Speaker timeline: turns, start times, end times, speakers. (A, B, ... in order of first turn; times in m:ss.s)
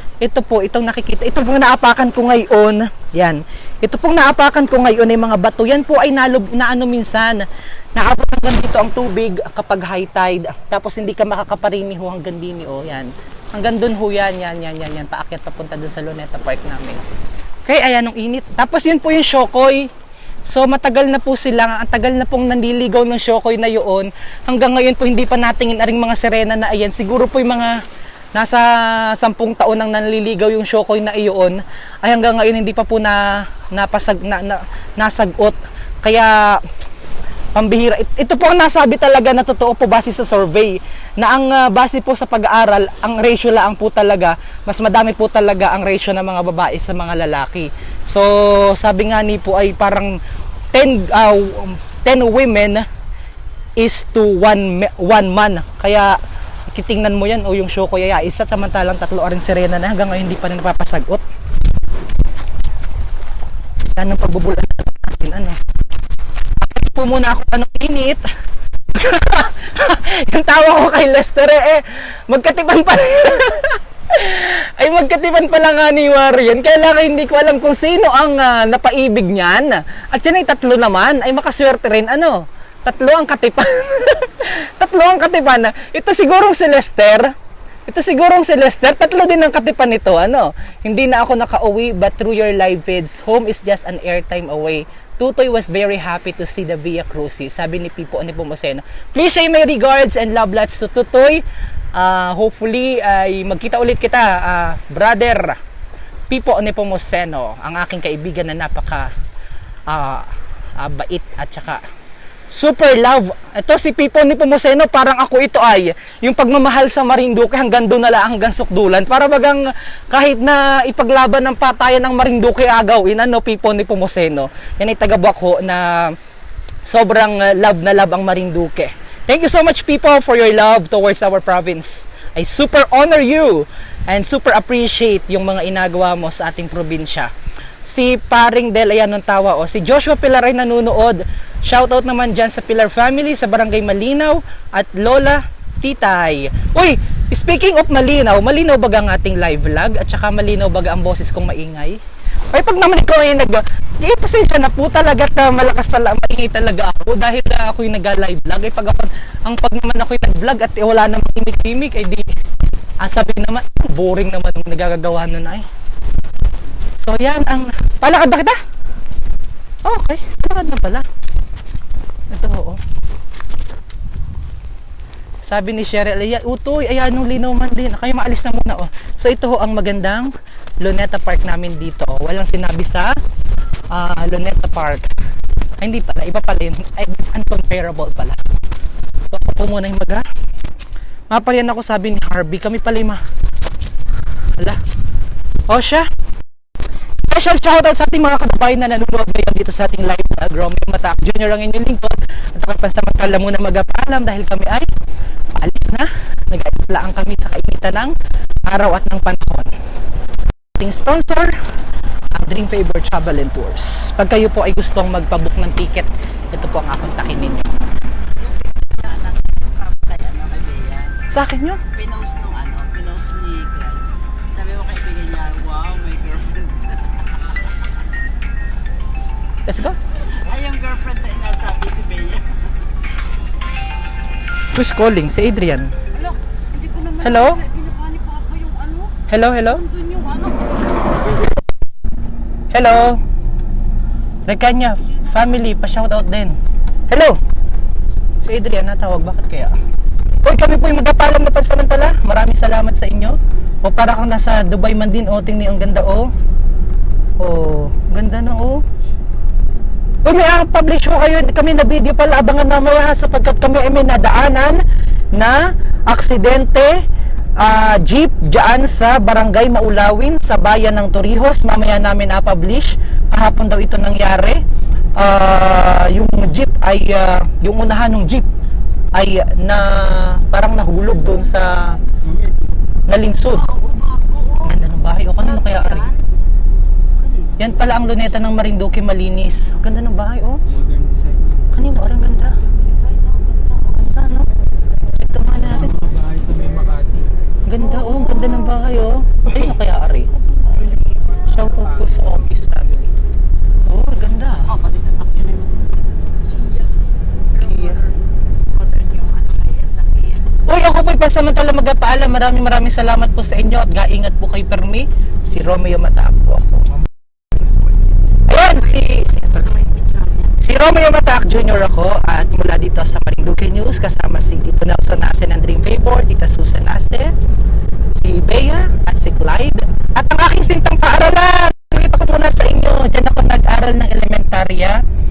0:00.2-0:17.0 A
0:17.6-0:19.9 A
0:20.4-0:27.8 A
0:28.3-0:36.6 A
0:37.6-0:50.2 A
0:50.7-0:52.8 A
0:53.8-0:56.2 A
0:56.7-1:01.2 A
1:04.0-1:05.6 A
1:06.6-1:08.2 A
1:08.9-1:27.3 A
1:27.9-1:45.6 A
1:46.3-1:49.1 A
1:49.9-1:51.8 A
1:52.5-2:06.2 A
2:06.8-2:17.3 A
2:17.8-2:32.0 A
2:32.5-2:42.3 A
2:43.0-2:45.6 A
2:47.0-2:48.6 A
2:49.8-2:51.0 A
2:52.3-2:52.8 A
2:55.4-3:03.1 A
3:03.9-3:05.1 A
3:05.8-3:08.4 A
3:09.2-3:10.3 A
3:11.3-3:13.2 A
3:15.7-3:16.1 A
3:17.3-3:24.9 A
3:25.6-3:29.7 A
3:30.8-3:31.5 A
3:32.3-3:37.9 A
3:38.4-3:41.2 B
3:41.3-3:41.8 A
3:41.9-3:47.8 B
3:49.6-3:50.0 A
3:50.3-3:52.8 B
3:54.7-3:55.9 A
3:56.1-3:59.1 B
3:57.2-3:57.6 A
3:59.3-3:59.9 A
3:59.7-4:00.8 B
4:02.7-4:03.2 A
4:04.4-4:06.6 A
4:07.1-4:07.4 A
4:08.4-4:09.7 A
4:10.4-4:16.3 A
4:17.4-4:18.8 A
4:20.2-4:24.8 A
4:25.3-4:27.0 A
4:27.6-4:34.6 A
4:35.2-4:38.5 A
4:39.1-4:42.0 A
4:43.1-4:43.7 A
4:43.5-4:46.2 B
4:44.6-4:46.0 A
4:47.2-4:48.3 B
4:47.6-4:50.6 A
4:50.8-4:51.6 C
4:51.7-4:52.6 A
4:52.6-4:54.0 B
4:53.9-4:54.5 A
4:55.1-4:56.0 A
4:55.9-4:57.3 C
4:57.6-5:00.4 A
4:57.9-4:58.6 B
5:00.4-5:01.5 B
5:01.4-5:03.1 A
5:03.8-5:04.7 A
5:04.7-5:06.9 B
5:07.5-5:08.1 B
5:07.6-5:08.0 A
5:08.7-5:10.5 B
5:10.7-5:17.0 A
5:18.5-5:19.7 A
5:18.7-5:20.6 B
5:20.6-5:27.3 A
5:28.2-5:35.0 A